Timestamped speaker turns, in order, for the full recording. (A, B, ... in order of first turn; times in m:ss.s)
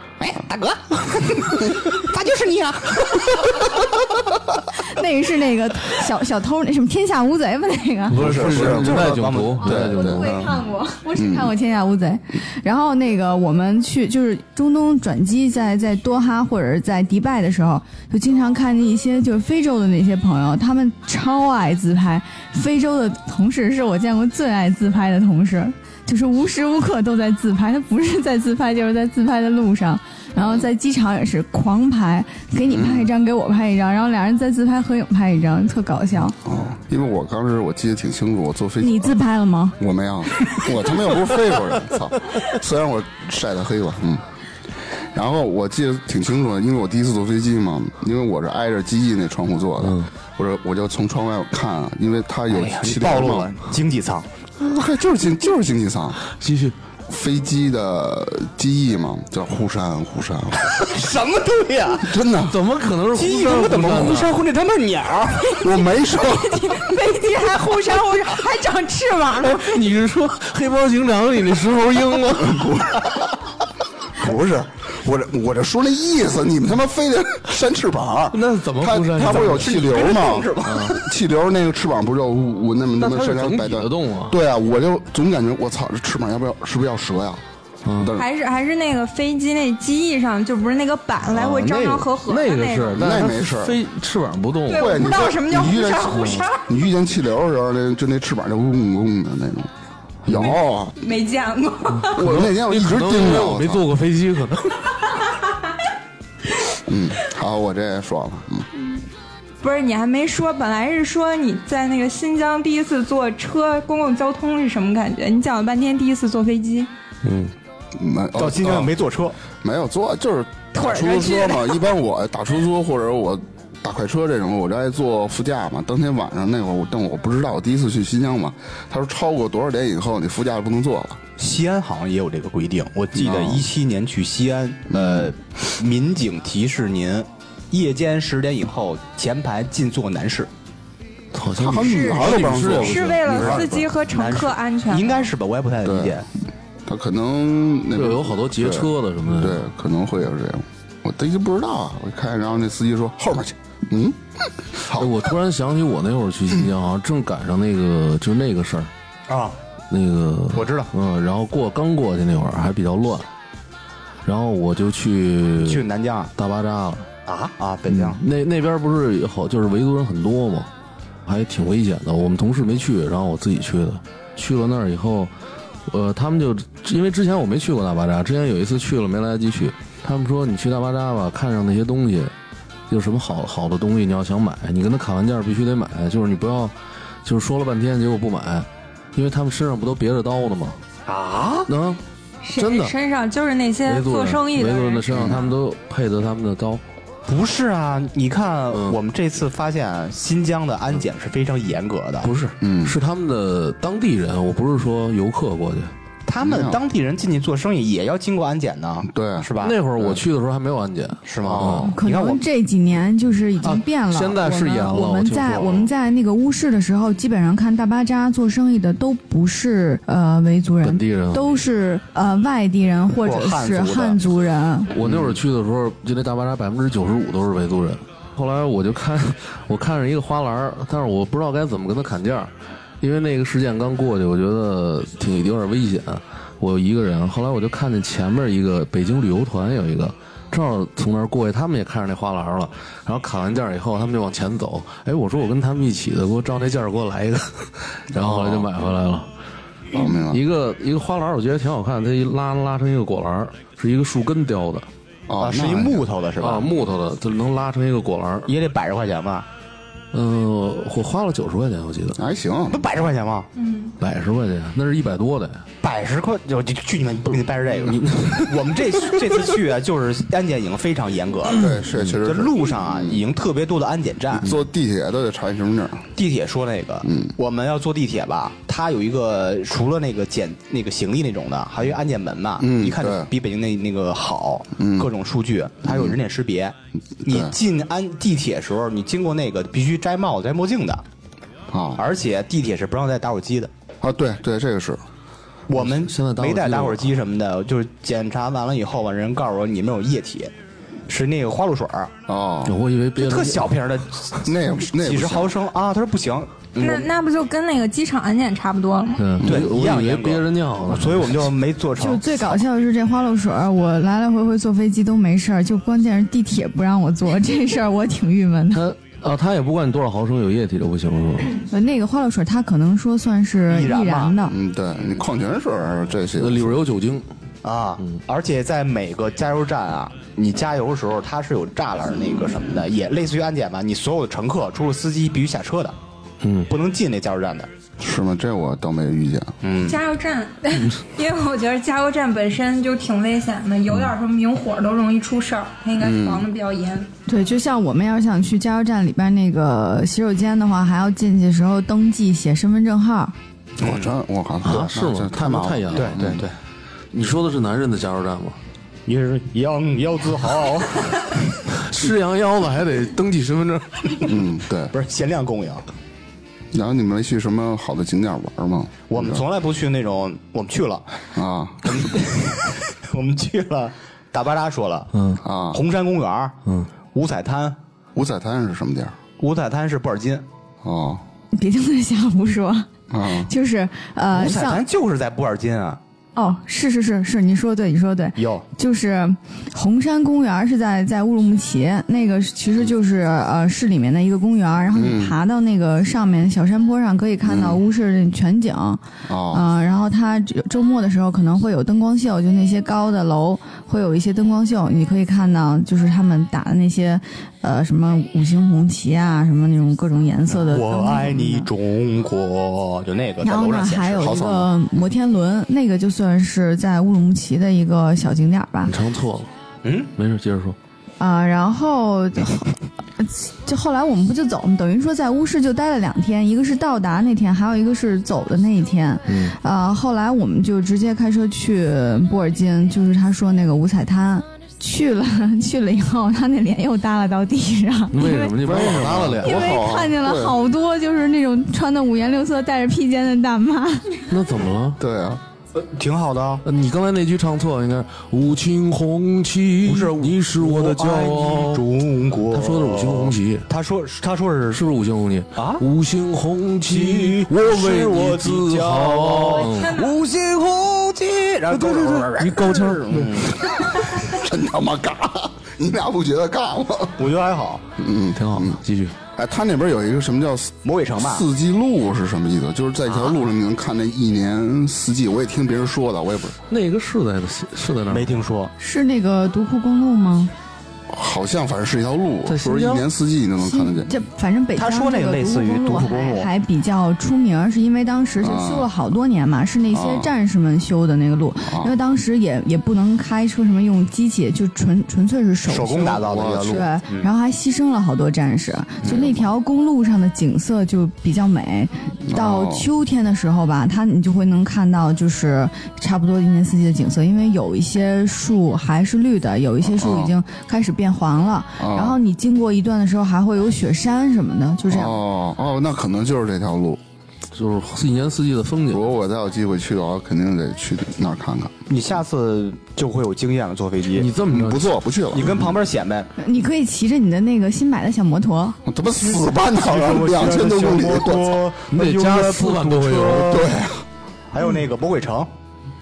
0:00.2-0:04.0 A
0:04.8-0:08.2 B
0:08.1-0:10.4 C
0:08.1-0:10.6 D
0:08.2-0:10.1 A
0:09.9-0:36.4 B
0:11.1-0:11.5 D
0:32.7-0:33.1 D
0:36.4-0:39.2 D
0:38.8-0:39.8 B
0:39.8-0:44.2 D
0:45.1-0:53.5 D
0:49.8-0:50.1 C
0:52.5-0:54.3 A
0:54.6-0:56.2 D
0:56.3-0:56.7 C
0:57.1-1:00.8 D
1:00.6-1:02.1 A
1:02.0-1:02.6 D
1:02.5-1:04.4 C
1:03.1-1:05.6 A
1:05.5-1:06.8 D
1:06.2-1:09.8 E
1:09.4-1:12.8 C
1:12.4-1:13.2 D
1:14.1-1:27.4 D
1:18.3-1:19.9 C
1:19.2-1:21.0 A
1:20.6-1:21.0 C
1:23.0-1:24.4 C
1:27.8-1:28.1 C
1:28.0-1:28.3 D
1:28.1-1:33.0 E
1:31.3-1:35.0 C
1:32.9-1:33.8 D
1:34.7-1:36.6 E
1:34.7-1:39.7 D
1:40.2-1:41.0 D
1:40.3-1:40.5 C
1:41.0-1:42.2 E
1:41.9-1:44.9 C
1:42.1-1:43.9 D
1:46.9-1:48.7 D
1:49.6-1:56.9 E
1:57.2-1:57.5 C
1:57.9-1:58.9 D
1:58.4-1:59.4 A
1:59.6-2:11.2 D
2:00.7-2:01.8 E
2:11.4-2:20.5 A
2:13.2-2:13.7 D
2:14.9-2:15.3 D
2:21.3-2:23.6 C
2:21.5-2:23.9 D
2:21.8-2:25.1 E
2:23.3-2:26.3 A
2:25.8-2:26.2 D
2:26.9-2:35.2 D
2:28.0-2:29.6 C
2:34.9-2:38.9 C
2:39.3-2:39.6 A
2:39.9-2:43.3 C
2:40.5-2:40.9 A
2:44.2-2:45.8 C
2:45.6-2:46.3 A
2:46.4-2:47.1 C
2:47.2-2:48.2 A
2:47.9-2:50.7 C
2:51.2-2:55.3 C
2:55.9-3:02.3 C
3:02.9-3:10.8 C
3:11.1-3:11.7 A
3:11.7-3:12.0 C
3:12.4-3:15.2 E
3:12.6-3:12.9 C
3:13.8-3:16.8 C
3:15.1-3:15.4 D
3:17.3-3:22.3 A
3:18.7-3:19.0 C
3:22.2-3:25.9 C
3:22.6-3:23.0 D
3:26.3-3:30.2 A
3:26.4-3:26.8 D
3:29.0-3:29.5 D
3:29.6-3:31.9 C
3:31.2-3:32.4 A
3:31.5-3:31.8 D
3:31.9-3:44.9 B
3:33.6-3:35.9 C
3:40.8-3:41.6 C
3:43.2-3:44.2 A
3:44.9-4:09.3 C
3:45.0-3:45.4 D
4:08.1-4:08.7 D
4:09.9-4:10.4 D
4:09.9-4:14.9 C
4:15.3-4:16.0 D
4:15.4-4:16.7 A
4:16.4-4:18.5 C
4:18.5-4:19.4 A
4:20.1-4:22.2 C
4:22.2-4:22.8 D
4:22.7-4:23.5 A
4:23.6-4:23.9 E
4:24.0-4:25.6 C
4:25.8-4:34.5 A
4:27.9-4:28.5 C
4:31.5-4:33.2 D
4:34.4-4:36.1 D
4:36.2-4:46.7 A
4:37.0-4:37.3 D
4:42.6-4:43.3 D
4:44.8-4:45.1 D
4:45.8-4:46.2 D
4:47.2-4:47.5 D
4:47.2-4:51.0 A
4:51.7-4:52.0 D
4:52.0-4:53.7 A
4:54.0-4:55.0 D
4:55.7-5:00.5 A
4:55.7-4:57.1 C
5:01.1-5:02.1 A
5:02.3-5:02.8 D
5:02.6-5:03.7 C
5:03.1-5:07.1 A
5:04.4-5:05.6 D
5:06.8-5:09.3 E
5:09.2-5:11.5 C
5:09.4-5:12.6 A
5:12.0-5:18.8 B
5:18.7-5:21.5 C
5:21.7-5:24.6 B
5:23.7-5:24.4 A
5:24.4-5:26.8 D
5:26.4-5:27.2 C
5:27.6-5:36.0 A
5:36.4-5:36.7 C
5:36.7-5:37.7 A
5:38.0-5:39.5 D
5:39.6-5:40.0 A
5:39.8-5:47.1 E
5:46.0-5:46.4 D
5:47.3-5:53.3 B
5:53.8-5:54.1 A
5:53.8-5:56.4 D
5:54.6-5:56.3 C
5:55.9-5:56.5 A
5:57.1-5:58.6 C
5:59.0-6:01.4 A
6:01.7-6:04.2 C
6:04.2-6:04.9 D
6:04.9-6:05.8 A
6:06.7-6:09.4 D
6:09.1-6:11.1 A
6:11.4-6:12.0 D
6:11.8-6:15.1 A
6:15.1-6:15.4 C
6:15.4-6:15.8 D
6:15.7-6:16.6 A
6:17.1-6:17.8 A
6:18.2-6:19.2 D
6:19.4-6:20.4 A
6:20.8-6:21.2 D
6:21.5-6:24.8 B
6:23.1-6:23.5 D
6:24.3-6:26.0 A
6:26.4-6:51.7 B
6:28.4-6:28.6 A
6:34.9-6:35.4 D
6:37.4-6:37.8 D
6:39.3-6:39.6 D
6:50.5-6:54.3 A
6:53.4-6:58.9 B
6:54.2-6:54.7 D
6:58.9-6:59.5 C
6:59.8-7:00.1 A
7:00.2-7:00.8 C
7:01.2-7:18.6 B
7:09.3-7:09.5 C
7:18.1-7:19.7 C
7:18.6-7:20.6 D
7:19.4-7:24.1 B
7:24.3-7:25.0 C
7:25.0-7:25.4 D
7:25.8-7:26.6 A
7:26.6-7:31.8 C
7:29.8-7:34.8 A
7:32.5-7:33.6 C
7:34.7-7:40.0 C
7:35.6-7:35.8 A
7:36.9-7:44.2 A
7:41.7-7:43.5 C
7:43.9-7:47.2 D
7:47.2-7:47.8 A
7:48.0-7:48.8 D
7:48.3-7:49.2 C
7:49.4-7:56.6 D
7:50.8-7:51.4 A
7:53.1-7:53.4 A
7:56.7-7:58.3 C
7:58.1-7:58.7 A
7:58.8-8:00.5 B
8:01.1-8:04.1 D
8:02.5-8:03.0 C
8:03.6-8:35.2 B
8:04.8-8:06.5 A
8:08.4-8:08.9 D
8:09.9-8:10.3 D
8:11.6-8:11.9 D
8:15.7-8:17.3 A
8:16.2-8:16.8 D
8:19.0-8:19.5 D
8:22.3-8:22.9 D
8:29.8-8:30.3 D
8:31.8-8:32.2 D
8:34.9-8:37.0 D
8:37.6-8:39.0 C
8:38.9-8:41.7 D
8:41.9-8:44.3 A
8:44.2-8:44.9 C
8:44.5-8:45.7 D
8:45.3-8:46.3 A
8:46.4-8:48.8 B
8:48.8-8:51.6 D
8:49.6-8:53.7 A
8:51.9-8:53.6 C
8:53.5-8:54.0 D
8:54.5-8:55.5 A